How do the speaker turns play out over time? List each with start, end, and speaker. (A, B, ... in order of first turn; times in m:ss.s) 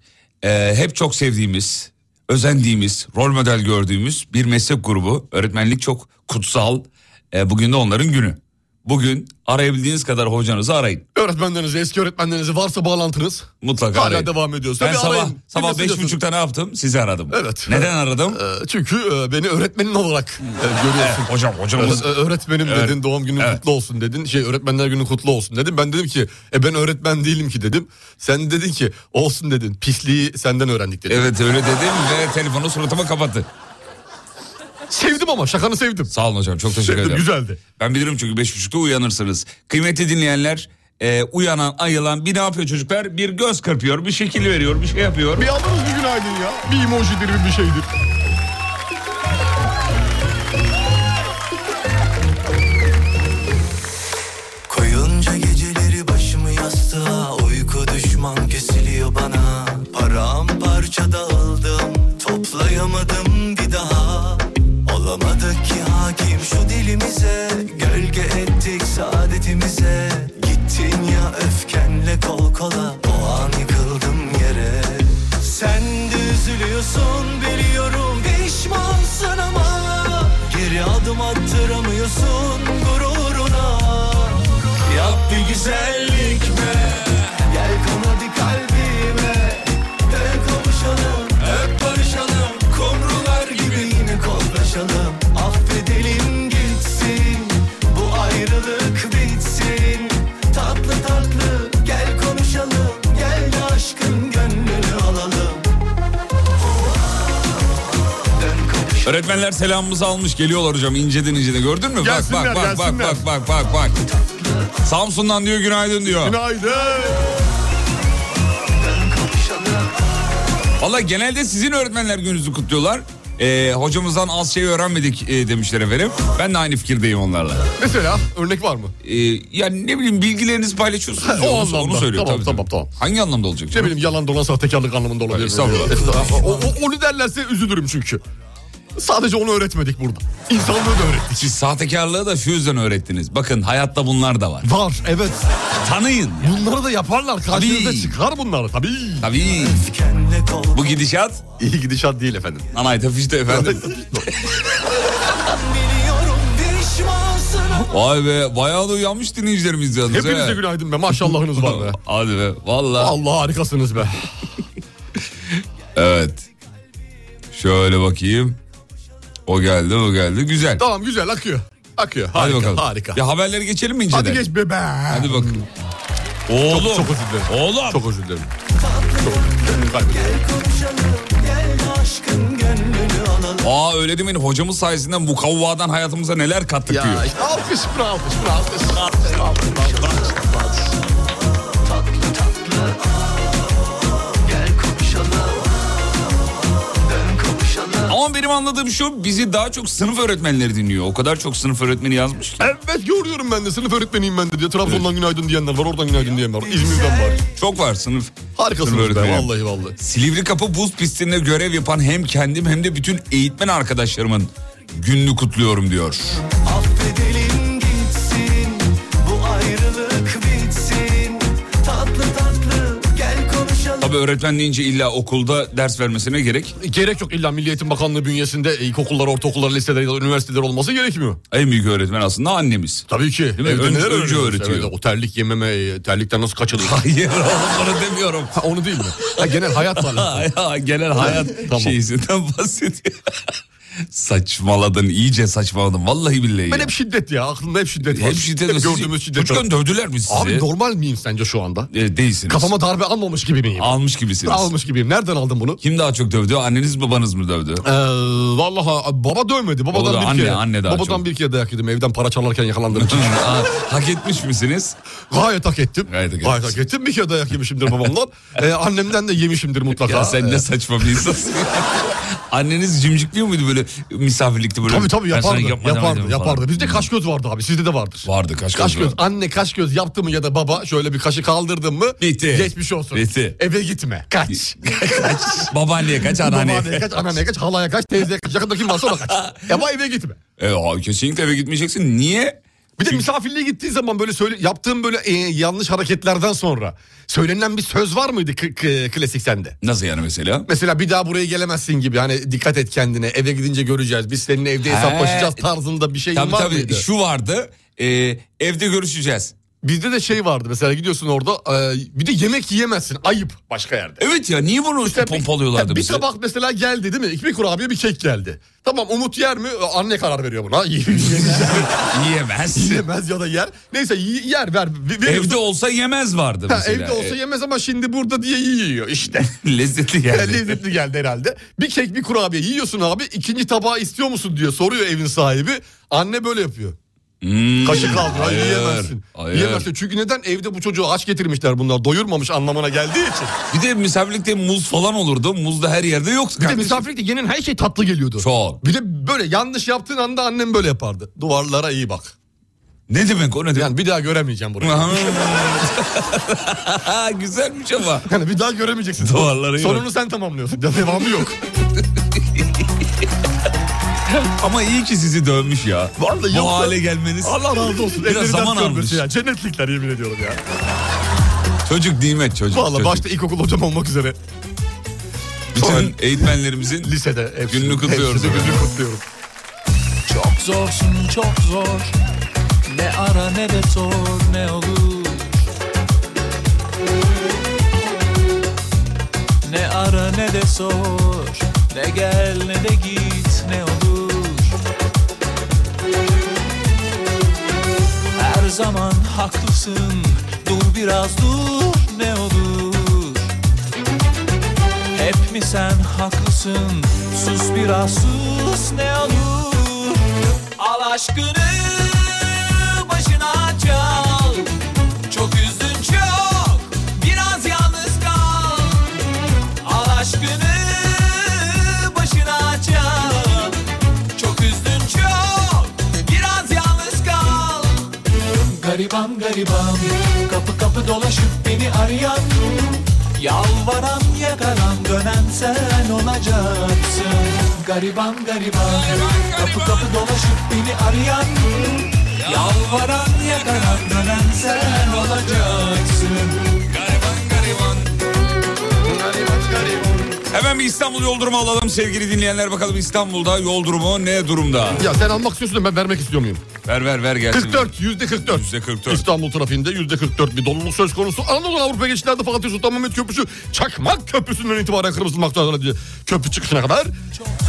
0:00.4-0:11.0 A
0:11.1-0:16.2 B
0:13.6-0:18.4 A
0:17.3-0:31.3 B
0:21.0-0:23.6 A
0:31.1-0:33.5 A
0:34.9-0:36.1 B
0:36.1-0:37.2 A
0:36.7-0:37.6 B
0:37.8-0:45.4 A
0:45.4-0:47.8 B
0:54.7-1:45.7 C
1:48.4-1:49.3 C
1:49.0-1:54.0 A
1:52.0-1:53.2 B
1:54.1-1:54.7 C
1:54.8-1:56.4 A
1:56.1-1:57.3 B
1:58.8-2:00.1 C
2:00.8-2:07.6 A
2:07.8-2:08.9 B
2:09.0-2:13.9 A
2:11.2-2:12.9 B
2:13.7-2:18.2 B
2:15.3-2:16.1 A
2:16.1-2:16.6 C
2:19.0-2:21.5 B
2:21.4-2:24.7 A
2:24.6-2:25.4 B
2:25.8-2:26.6 A
2:26.4-2:29.3 B
2:27.5-2:28.1 A
2:29.2-2:29.8 A
2:29.5-2:31.0 C
2:30.7-2:31.4 A
2:31.6-2:32.7 B
2:32.7-2:34.6 A
2:33.5-2:34.3 B
2:35.4-2:37.9 C
2:37.9-2:40.6 A
2:40.0-2:42.0 B
2:41.3-2:43.1 A
2:43.0-2:44.3 B
2:46.0-2:46.5 A
2:47.5-2:48.6 A
2:49.5-2:50.8 A
2:50.8-2:53.2 B
2:52.3-2:54.4 A
2:54.1-2:55.7 B
2:55.1-2:55.6 A
2:56.5-2:58.0 A
2:56.7-2:58.5 B
2:58.8-3:03.6 C
2:59.2-3:00.4 B
3:03.6-3:07.2 A
3:06.9-3:10.4 B
3:09.0-3:09.3 A
3:11.8-3:18.2 C
3:18.1-3:22.7 A
3:22.6-3:27.4 B
3:27.5-3:36.4 A
3:28.6-3:30.0 B
3:36.6-3:44.2 C
3:44.0-3:46.7 A
3:46.8-3:51.4 B
3:51.5-3:53.1 A
3:53.1-3:57.0 B
3:53.6-3:54.9 A
3:56.8-3:58.6 A
3:58.5-4:00.5 B
3:59.3-4:03.3 A
4:01.1-4:02.0 B
4:04.1-4:06.9 A
4:06.7-4:09.6 B
4:08.1-4:10.6 A
4:10.3-4:11.9 B
4:11.9-4:12.7 A
4:12.5-4:15.8 B
4:13.8-4:14.7 A
4:15.8-4:17.8 A
4:17.8-4:23.8 B
4:19.9-4:21.2 A
4:22.9-4:25.0 A
4:25.3-4:30.6 B
4:26.1-4:26.7 A
4:30.0-4:37.1 A
4:34.8-4:50.4 B
4:38.2-4:39.2 A
4:42.2-4:43.6 A
4:44.9-4:47.2 A
4:50.6-4:53.2 A
4:53.0-4:59.8 B
4:59.8-5:00.6 A
5:00.7-5:07.0 B
5:04.8-5:05.6 A
5:06.3-5:09.5 A
5:09.8-5:14.2 B
5:14.2-5:16.2 A
5:15.0-5:21.9 B
5:21.3-5:23.0 A
5:22.7-5:25.6 B
5:25.2-5:27.3 A
5:26.7-5:29.5 B
5:29.6-5:30.8 A
5:30.2-5:37.0 B
5:37.4-5:39.9 A
5:37.8-5:43.5 B
5:43.7-5:47.0 A
5:46.6-5:52.3 B
5:48.4-5:48.8 A
5:53.1-5:53.9 A
5:53.7-5:55.8 B
5:54.8-5:58.3 A
5:58.3-6:01.6 B
5:59.2-6:00.0 A
6:02.4-6:02.7 A
6:04.3-6:09.2 A
6:06.2-6:10.6 B
6:11.8-6:13.2 A
6:12.7-6:14.4 B
6:15.7-6:17.1 A
6:15.7-6:19.2 B
6:17.7-6:18.8 A
6:20.3-6:22.2 D
6:22.8-6:25.6 D
6:29.6-6:34.8 D
6:38.4-6:43.5 D
6:45.1-6:50.2 D
6:50.8-6:54.7 D
6:55.3-6:59.1 D
6:59.8-7:03.8 D
7:04.3-7:08.1 D
7:08.7-7:26.6 D
7:18.9-7:20.1 A
7:22.4-7:22.8 A
7:23.6-7:24.0 A
7:26.9-7:28.1 A
7:29.0-7:30.3 B
7:30.5-7:35.1 A
7:35.0-7:36.6 B
7:36.8-7:39.2 A
7:37.5-7:47.1 B